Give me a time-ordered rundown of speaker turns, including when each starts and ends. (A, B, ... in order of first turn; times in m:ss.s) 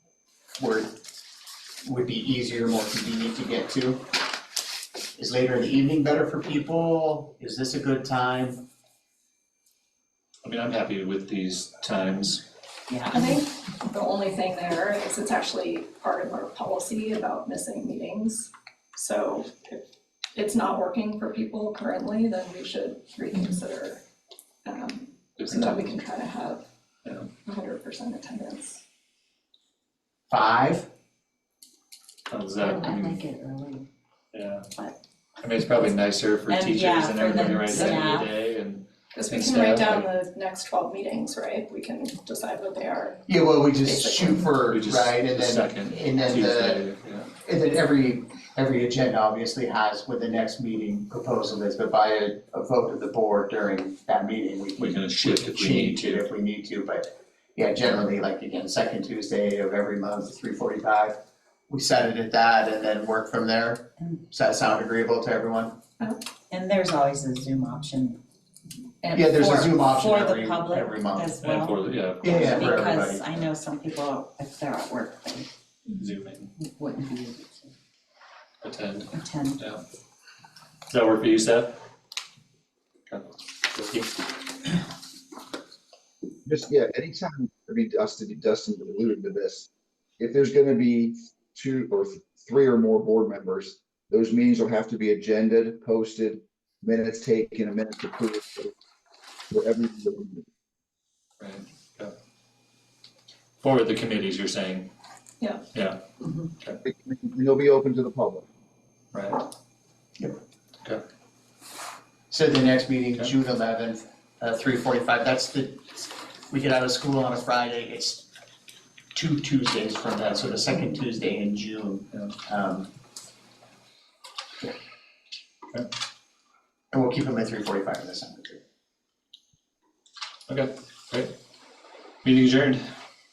0:00.6-0:01.0 A
0:01.8-0:04.0 A
0:05.2-0:08.6 A
0:10.4-0:12.4 B
0:12.9-0:13.4 C
0:13.1-0:19.8 D
0:20.3-0:24.0 D
0:24.6-0:26.6 D
0:25.4-0:25.9 B
0:27.4-0:28.8 D
0:30.3-0:30.9 A
0:32.3-0:33.2 B
0:32.6-0:33.9 C
0:34.3-0:34.7 B
0:35.4-0:40.1 B
0:35.6-0:35.9 C
0:36.5-0:38.3 C
0:39.1-0:43.2 D
0:43.3-0:46.8 A
0:43.8-0:44.5 D
0:44.6-0:47.3 B
0:47.4-1:05.8 A
0:54.8-0:56.2 B
1:06.5-1:08.2 C
1:09.0-1:09.7 D
1:09.1-1:11.3 A
1:09.4-1:15.5 C
1:11.4-1:12.8 B
1:12.2-1:13.4 A
1:15.9-1:16.5 B
1:16.6-1:17.7 C
1:18.6-1:19.8 B
1:19.1-1:19.6 C
1:20.9-1:21.8 B
1:23.1-1:24.1 B
1:26.4-1:38.7 E
1:39.5-1:40.4 E
1:41.4-1:42.1 B
1:43.6-1:44.9 B
1:45.7-1:46.0 B
1:46.8-1:48.4 E
1:49.1-1:49.4 B
1:52.3-1:58.3 A
1:59.1-2:02.9 A
2:06.9-2:08.6 A
2:10.5-2:11.3 B
2:12.2-2:12.8 B